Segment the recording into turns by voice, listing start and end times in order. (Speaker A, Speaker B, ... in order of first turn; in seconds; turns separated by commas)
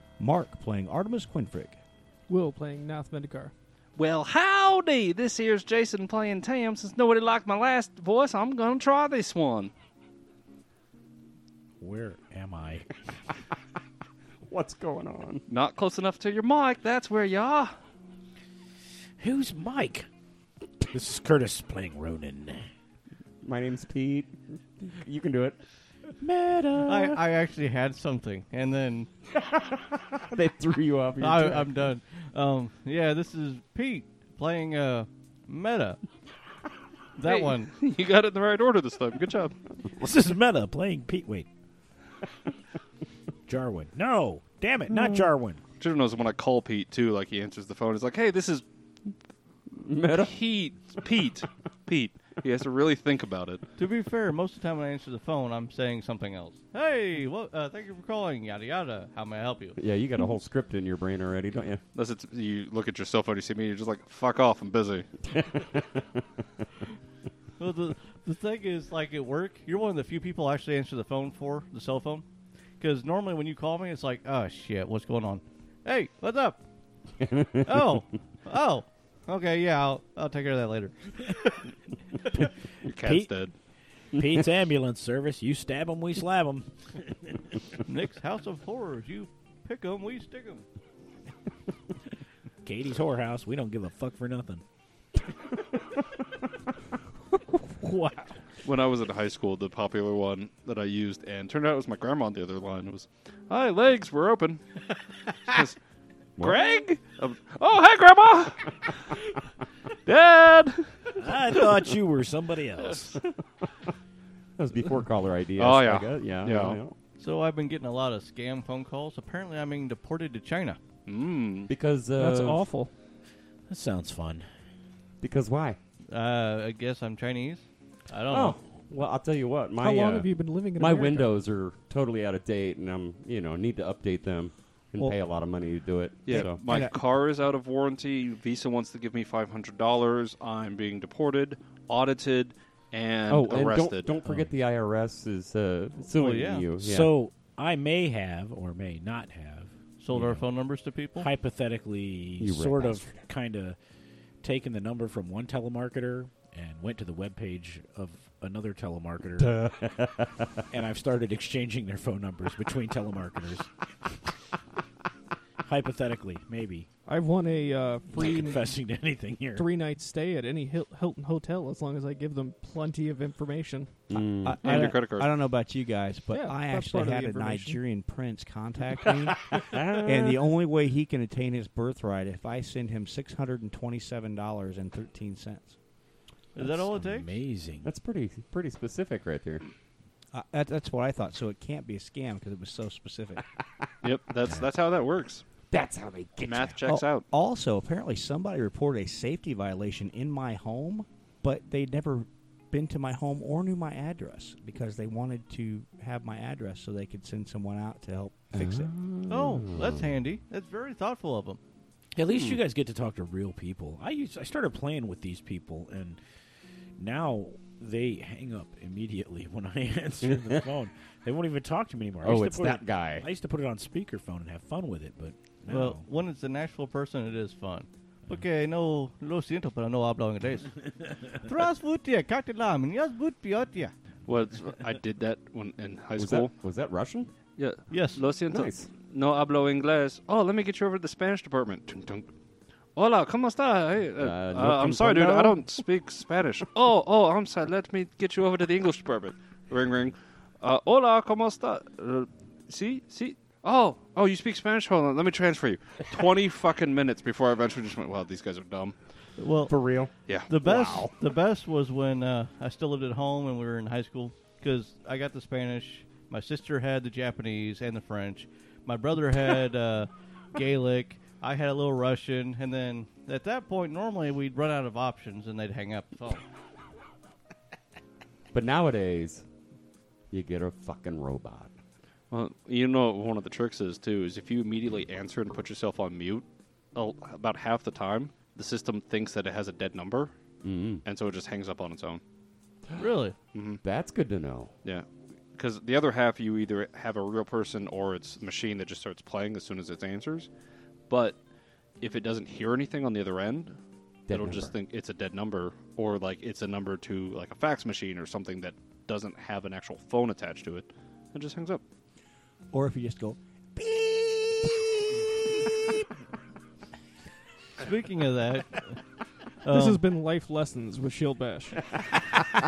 Speaker A: 0.2-1.8, Speaker B: 2.3-3.5, Speaker C: 4.0-9.7, Speaker D: 11.8-12.9, Speaker E: 14.4-15.4, Speaker C: 15.5-17.8, Speaker D: 19.2-20.1, Speaker D: 20.9-22.7, Speaker E: 23.4-25.6, Speaker D: 26.2-27.2, Speaker F: 26.9-29.1, Speaker E: 29.4-31.9, Speaker F: 31.2-36.0, Speaker F: 37.2-37.7, Speaker C: 37.2-39.6, Speaker D: 40.0-41.5, Speaker D: 43.5-45.6, Speaker E: 44.9-45.3, Speaker C: 45.8-48.6, Speaker E: 49.7-50.3, Speaker C: 50.1-53.6, Speaker F: 53.8-59.8, Speaker E: 59.8-61.8, Speaker C: 62.0-65.1, Speaker E: 65.3-66.0, Speaker F: 67.6-72.3, Speaker F: 72.8-76.6, Speaker E: 77.2-78.0, Speaker F: 77.7-81.2, Speaker C: 82.8-83.5, Speaker D: 83.0-83.3, Speaker D: 84.2-87.4, Speaker E: 84.2-84.5, Speaker F: 87.8-90.7, Speaker D: 92.6-94.6, Speaker D: 97.8-98.2, Speaker C: 98.6-104.6, Speaker C: 105.5-105.8, Speaker C: 106.4-109.2, Speaker C: 110.0-111.5, Speaker D: 111.2-113.2, Speaker E: 114.6-117.0, Speaker C: 115.6-116.8, Speaker F: 117.2-120.8, Speaker C: 121.1-121.7, Speaker E: 121.7-122.7, Speaker B: 122.2-122.9, Speaker D: 123.7-124.5, Speaker E: 125.2-125.8, Speaker F: 126.1-128.6, Speaker E: 128.3-136.6, Speaker B: 129.8-131.4, Speaker C: 136.3-144.2, Speaker A: 136.3-137.0, Speaker E: 143.3-147.1, Speaker F: 146.1-146.7, Speaker D: 146.8-150.4, Speaker F: 150.0-151.3, Speaker D: 151.2-153.8, Speaker E: 152.4-153.1, Speaker D: 154.4-159.6, Speaker E: 159.4-160.6, Speaker D: 160.7-163.7, Speaker D: 165.6-166.9, Speaker B: 167.1-168.7, Speaker D: 168.1-169.7, Speaker B: 169.6-174.1, Speaker E: 174.1-174.9, Speaker A: 174.3-179.5, Speaker C: 174.6-175.4, Speaker B: 176.3-177.8, Speaker E: 179.6-180.5, Speaker A: 180.0-185.8, Speaker F: 186.6-187.3, Speaker D: 186.6-187.9, Speaker E: 187.8-189.6, Speaker A: 190.3-193.4, Speaker C: 194.0-195.4, Speaker E: 195.7-196.8, Speaker C: 196.4-197.3, Speaker A: 196.9-208.9, Speaker E: 208.5-210.2, Speaker F: 209.3-211.6, Speaker D: 212.2-216.2, Speaker D: 217.0-226.0, Speaker E: 220.2-220.7, Speaker E: 222.2-223.3, Speaker F: 225.7-233.9, Speaker C: 234.3-236.5, Speaker E: 236.2-237.3, Speaker C: 237.6-242.3, Speaker F: 237.9-238.2, Speaker E: 238.5-238.9, Speaker C: 243.0-259.0, Speaker E: 244.2-245.6, Speaker F: 259.4-259.8, Speaker E: 259.7-260.1, Speaker C: 260.3-261.1, Speaker F: 260.5-276.4, Speaker E: 278.5-279.5, Speaker E: 280.3-281.7, Speaker C: 282.3-290.3, Speaker E: 290.6-291.0, Speaker C: 291.1-292.2, Speaker F: 293.0-293.4, Speaker C: 293.5-293.8, Speaker E: 293.8-294.7, Speaker C: 294.9-300.5, Speaker C: 301.1-301.4, Speaker C: 302.0-303.8, Speaker E: 304.3-304.8, Speaker C: 304.3-311.8, Speaker A: 312.7-315.2, Speaker F: 317.8-319.0, Speaker F: 319.6-320.0, Speaker B: 319.7-322.0